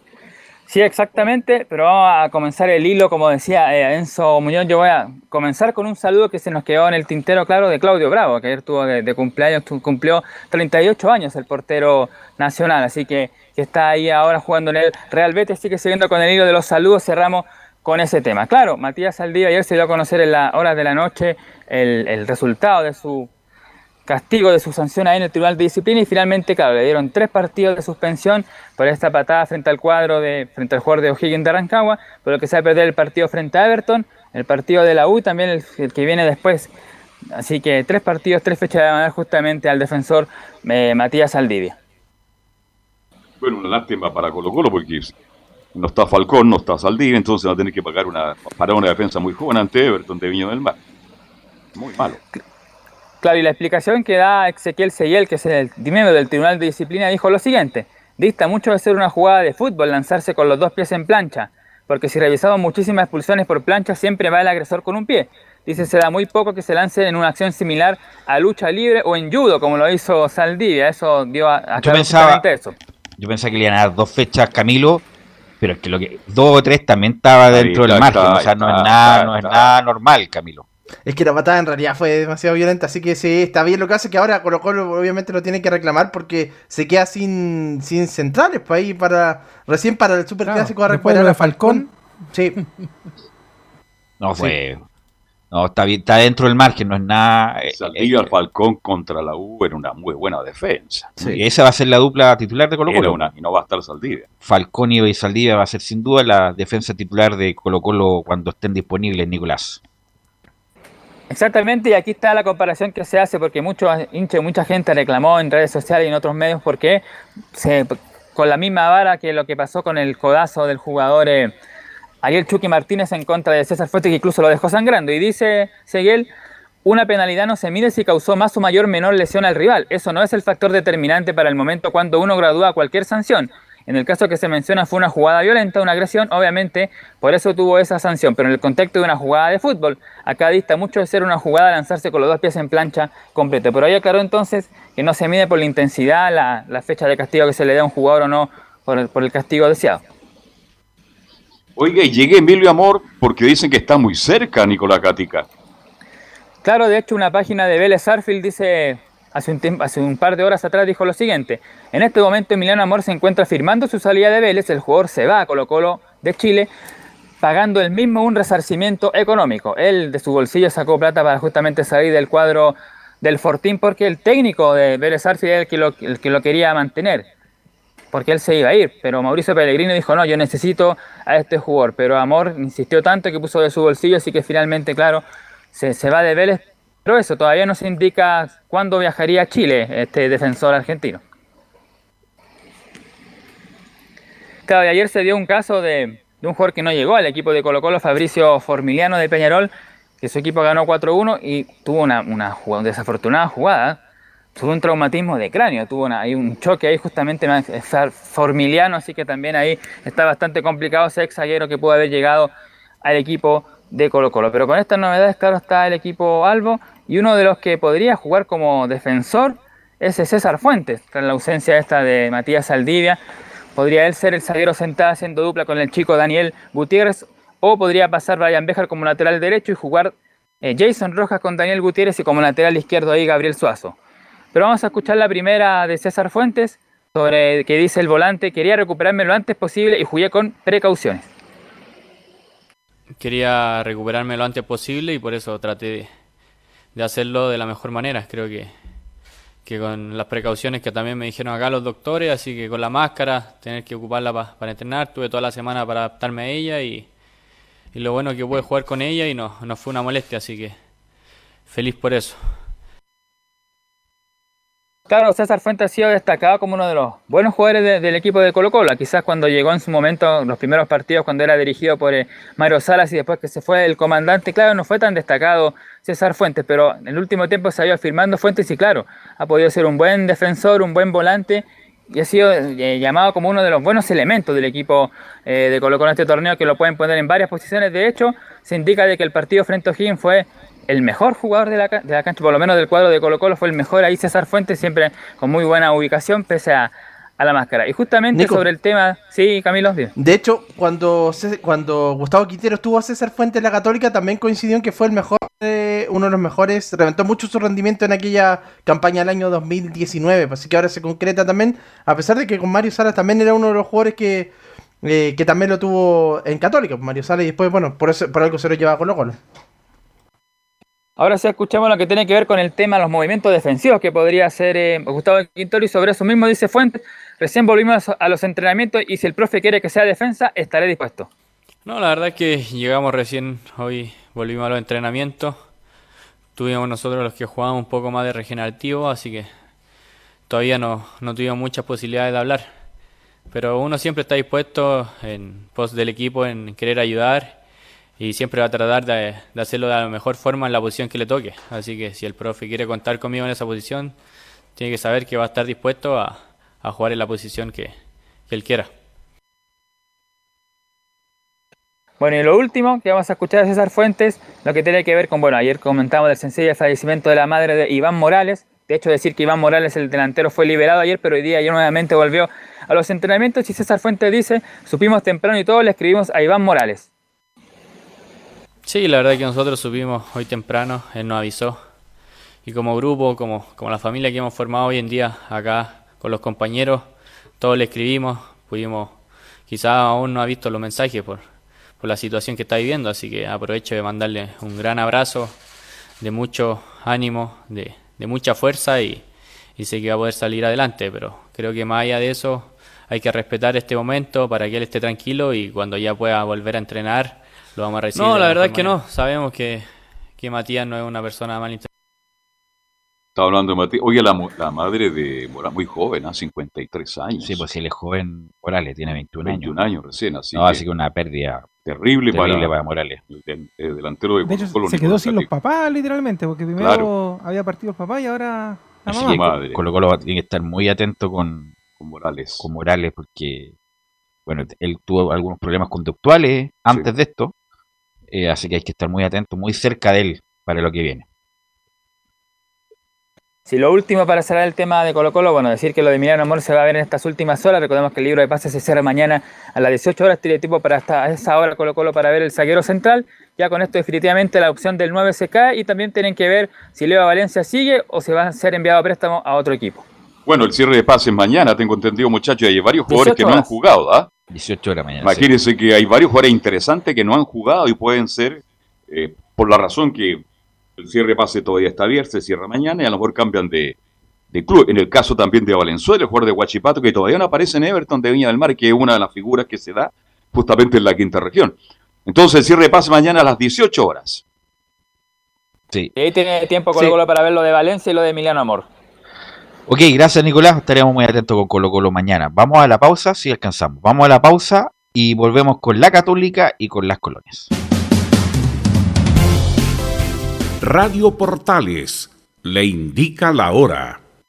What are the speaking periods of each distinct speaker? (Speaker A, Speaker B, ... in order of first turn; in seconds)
Speaker A: 0.7-23.3, 24.1-36.7, 37.4-41.8, 53.2-72.7, 111.3-121.5, 122.2-126.3, 126.8-150.0, 156.6-166.7, 167.4-177.3, 178.1-191.2, 194.7-204.0, 204.6-212.5, 213.0-223.2, 223.7-233.9, 234.5-241.2, 265.1-300.1, 321.2-331.3, 362.2-377.1, 443.7-460.0, 463.1-463.7, 486.1-488.9
Speaker B: 43.4-45.1, 45.7-50.8, 51.7-52.2, 77.5-79.7, 97.7-101.4, 102.9-104.2, 151.8-155.4, 413.4-417.6, 419.4-420.8, 421.8-422.7, 423.3-425.5, 426.8-427.1, 429.1-429.8, 432.0-432.6, 460.4-464.3, 465.2-470.4, 471.0-474.0, 474.5-481.7, 482.2-484.4
Speaker C: 71.8-72.4, 73.2-75.0, 75.6-80.7, 94.2-94.8, 95.5-98.3, 101.2-103.2, 104.4-109.8, 417.4-419.7, 420.5-421.7, 422.3-423.2, 429.1-431.7, 432.6-433.7, 434.4-437.5, 438.3-441.2, 464.5-465.5, 489.9-497.7
Speaker D: 81.1-92.5, 298.3-298.6, 300.2-319.4
Speaker E: 90.4-91.9, 424.4-429.5
Speaker F: 243.2-246.1, 246.9-248.7, 249.6-257.1, 257.9-260.8, 261.7-262.5, 331.8-335.7, 336.6-339.5, 340.5-342.8, 343.5-347.6, 348.2-354.1, 354.7-357.9, 358.5-358.9, 378.8-381.8, 382.6-395.6, 396.2-411.9
Speaker G: 500.8-504.2